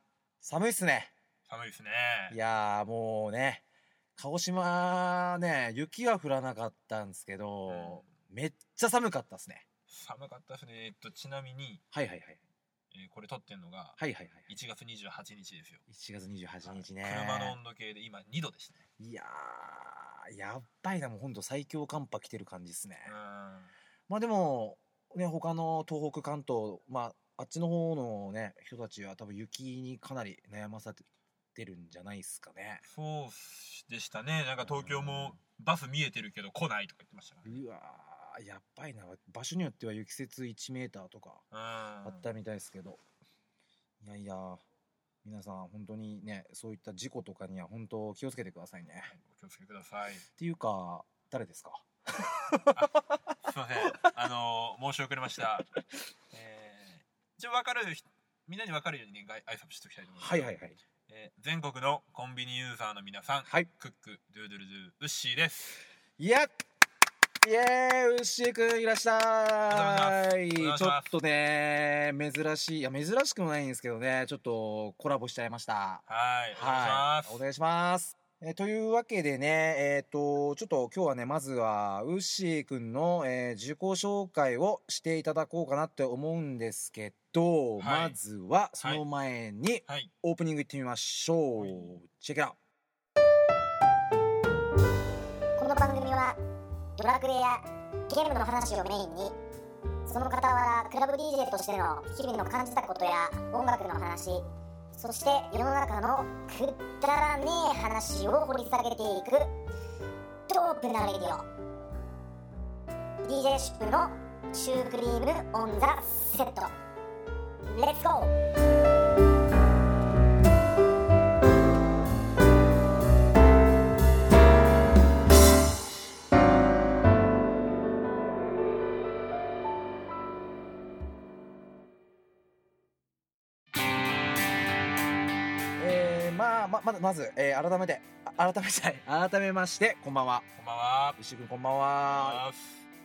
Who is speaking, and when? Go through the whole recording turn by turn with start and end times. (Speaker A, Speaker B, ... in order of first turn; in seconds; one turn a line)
Speaker A: 0.4-1.1
Speaker B: 1.5-2.4
Speaker A: 2.3-3.6
Speaker A: 4.2-9.7
Speaker B: 7.7-8.0
Speaker B: 9.9-11.8
Speaker A: 11.9-12.4
Speaker B: 12.9-14.0
Speaker A: 14.0-14.5
Speaker B: 14.5-15.8
Speaker A: 15.9-17.6
Speaker B: 16.7-18.8
Speaker A: 19.0-23.1
Speaker B: 23.1-23.7
Speaker A: 24.1-32.8
Speaker B: 32.9-37.6
Speaker A: 34.6-35.4
Speaker A: 37.5-41.4
Speaker B: 41.5-42.2
Speaker A: 42.0-43.0
Speaker A: 44.0-44.6
Speaker A: 45.2-49.1
Speaker B: 49.1-50.2
Speaker A: 50.4-53.2
Speaker B: 52.7-55.7
Speaker A: 53.8-54.1
Speaker B: 56.3-60.5
Speaker A: 60.2-60.8
Speaker B: 61.1-65.8
Speaker A: 66.2-66.5
Speaker A: 67.4-92.6
Speaker B: 69.7-71.1
Speaker B: 76.1-77.4
Speaker B: 87.8-88.2
Speaker B: 91.6-91.9
Speaker C: 95.6-96.4
Speaker C: 97.0-99.3
Speaker C: 100.1-109.5
Speaker C: 110.5-111.5
Speaker C: 113.2-116.7
Speaker C: 117.7-118.3
Speaker A: 135.8-140.5
Speaker B: 140.6-141.2
Speaker A: 141.2-142.4
Speaker B: 142.0-142.8